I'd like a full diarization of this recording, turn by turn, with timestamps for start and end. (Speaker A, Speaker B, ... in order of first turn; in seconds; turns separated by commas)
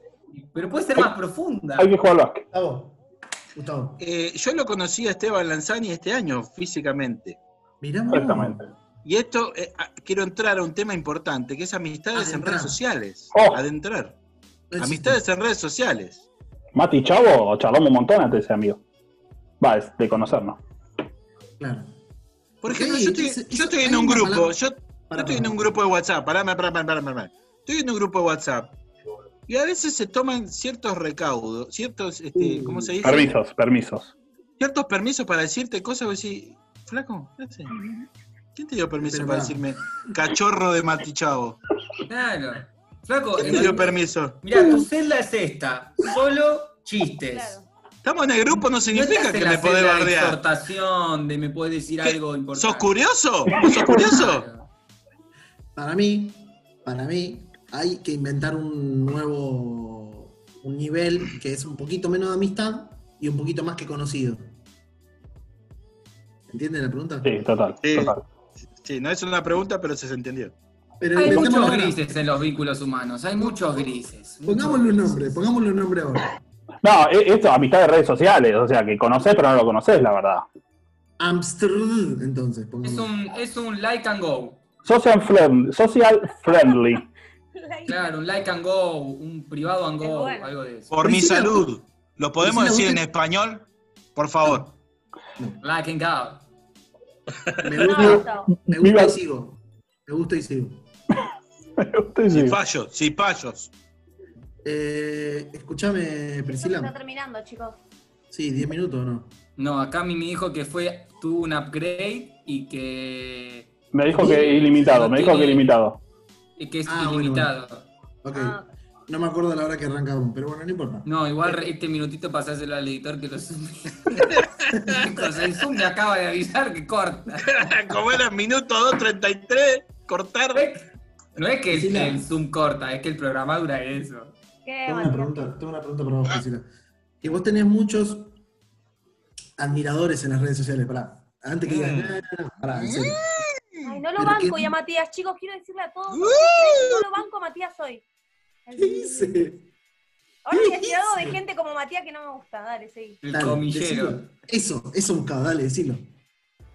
Speaker A: 0.3-1.9, Speaker B: 1.8-2.4, Speaker C: 2.5-3.0, Speaker C: 3.5-4.0, Speaker D: 4.0-7.4, Speaker C: 7.8-8.7, Speaker B: 8.1-8.7, Speaker D: 9.0-14.2, Speaker C: 12.1-12.8, Speaker B: 13.3-13.6, Speaker C: 14.7-15.2, Speaker D: 14.8-16.3, Speaker B: 16.7-18.8, Speaker B: 19.6-20.6, Speaker C: 21.6-21.9, Speaker D: 22.6-28.8, Speaker C: 22.6-25.8, Speaker D: 29.5-33.4, Speaker C: 32.3-33.3, Speaker B: 33.0-34.1, Speaker D: 34.6-37.7, Speaker D: 38.5-41.6, Speaker C: 39.0-39.7, Speaker A: 42.1-47.6, Speaker C: 43.4-43.9, Speaker D: 43.4-44.4, Speaker E: 47.3-47.7, Speaker D: 48.0-50.4, Speaker A: 48.9-52.9, Speaker D: 52.0-54.5, Speaker A: 53.6-54.7, Speaker C: 55.7-64.5, Speaker C: 66.5-67.3, Speaker B: 67.2-68.2, Speaker D: 67.8-68.1, Speaker D: 68.8-70.5, Speaker C: 71.0-72.0, Speaker A: 71.2-75.4, Speaker B: 71.2-71.7, Speaker C: 73.4-73.8, Speaker C: 74.4-76.3, Speaker B: 76.8-80.4, Speaker C: 81.2-83.1, Speaker A: 82.8-84.6, Speaker B: 84.8-87.0, Speaker E: 87.5-88.1, Speaker A: 87.9-90.9, Speaker E: 90.0-90.5, Speaker D: 90.9-94.7, Speaker C: 91.0-91.7, Speaker C: 92.4-93.0, Speaker A: 95.6-96.4, Speaker C: 97.6-100.8, Speaker E: 97.8-98.5, Speaker B: 98.0-99.1, Speaker B: 101.8-102.6, Speaker D: 102.3-103.7, Speaker C: 104.6-106.9, Speaker E: 106.5-107.8, Speaker C: 108.3-109.3, Speaker A: 109.6-115.7, Speaker B: 113.9-116.0, Speaker C: 114.1-114.5, Speaker A: 116.6-117.9, Speaker C: 116.8-117.5, Speaker C: 118.2-121.6, Speaker E: 118.3-118.6, Speaker A: 121.0-127.6, Speaker C: 124.8-125.0, Speaker D: 127.4-130.7, Speaker A: 130.5-130.8, Speaker A: 131.3-134.3, Speaker C: 131.7-132.2, Speaker E: 134.6-135.4, Speaker C: 134.8-136.7, Speaker C: 137.2-138.3, Speaker C: 139.6-143.2, Speaker D: 141.7-142.2, Speaker D: 142.7-143.8, Speaker E: 143.8-148.0, Speaker C: 144.2-144.7, Speaker D: 146.1-147.0, Speaker E: 148.6-149.5, Speaker C: 148.7-149.6, Speaker E: 150.4-153.2, Speaker C: 150.5-151.4, Speaker A: 153.2-154.2, Speaker C: 153.3-156.1